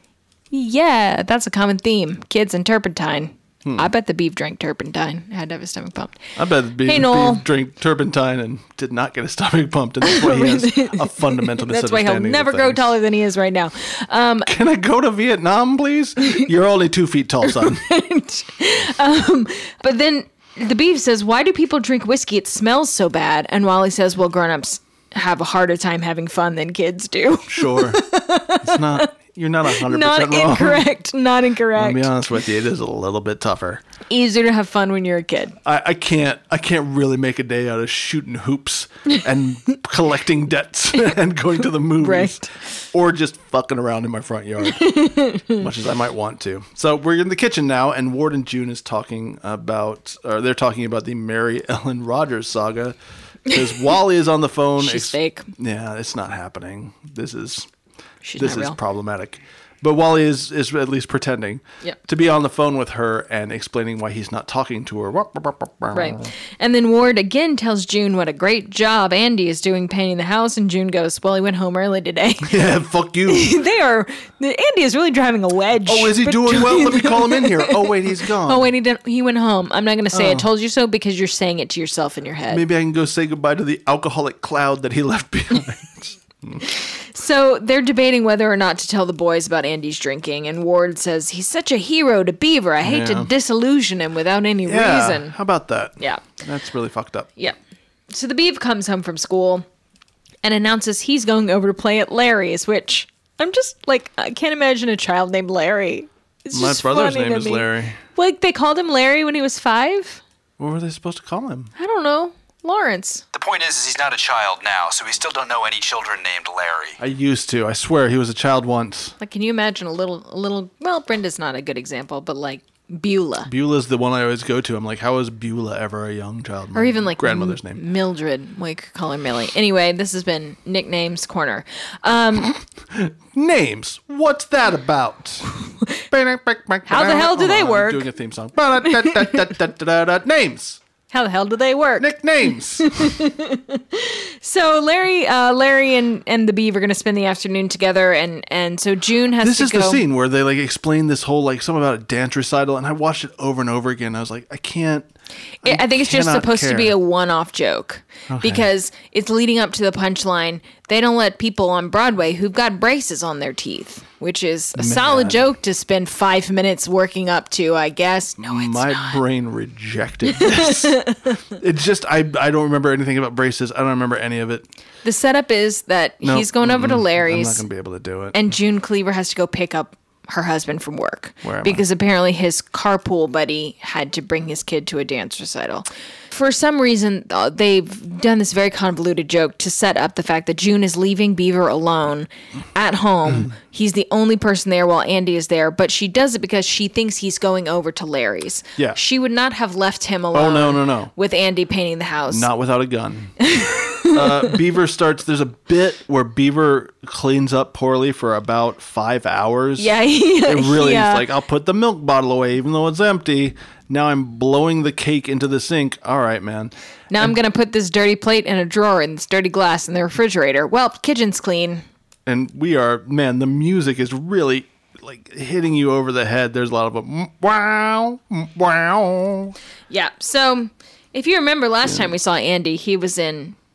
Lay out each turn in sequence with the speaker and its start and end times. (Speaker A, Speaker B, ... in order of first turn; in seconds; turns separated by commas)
Speaker A: 0.5-6.2, Speaker B: 6.3-12.9, Speaker A: 6.8-7.4, Speaker A: 10.0-14.5, Speaker B: 14.4-17.8, Speaker A: 17.4-29.1, Speaker B: 27.5-28.0, Speaker B: 28.6-30.9, Speaker A: 29.7-32.1, Speaker B: 31.7-33.8, Speaker A: 34.1-35.6, Speaker B: 35.6-44.9, Speaker A: 42.0-42.5, Speaker A: 44.6-45.6, Speaker B: 45.5-53.0, Speaker B: 53.5-57.7, Speaker A: 54.8-55.5, Speaker A: 58.2-58.8, Speaker B: 58.4-66.3, Speaker A: 65.9-72.6, Speaker B: 72.4-73.5, Speaker A: 73.3-82.6, Speaker B: 75.8-78.7, Speaker B: 80.1-80.5, Speaker B: 82.5-86.6, Speaker A: 86.6-95.3, Speaker B: 92.8-93.3, Speaker B: 94.7-97.3, Speaker A: 96.0-96.2, Speaker A: 98.1-99.7, Speaker A: 100.4-110.2, Speaker B: 106.5-108.0, Speaker B: 110.6-111.7, Speaker A: 111.8-113.2, Speaker C: 113.3-117.0, Speaker B: 117.0-119.1, Speaker A: 119.2-123.5, Speaker B: 123.5-127.8, Speaker A: 126.7-132.6, Speaker B: 132.9-135.5, Speaker B: 136.1-140.8, Speaker A: 136.8-138.1, Speaker A: 138.8-139.4, Speaker A: 141.1-142.1, Speaker B: 142.0-143.2, Speaker A: 142.8-150.0, Speaker B: 149.4-155.1, Speaker A: 155.6-169.2, Speaker B: 155.6-156.9, Speaker B: 158.3-158.7, Speaker B: 164.8-165.4, Speaker B: 168.4-174.7, Speaker A: 170.3-171.4, Speaker A: 175.0-177.6, Speaker B: 176.2-178.4, Speaker A: 178.3-202.5, Speaker B: 181.4-181.8, Speaker B: 200.3-201.1, Speaker B: 202.3-217.3, Speaker A: 203.4-204.5, Speaker A: 209.8-211.2, Speaker A: 217.1-221.8, Speaker B: 222.2-229.5, Speaker A: 229.9-233.6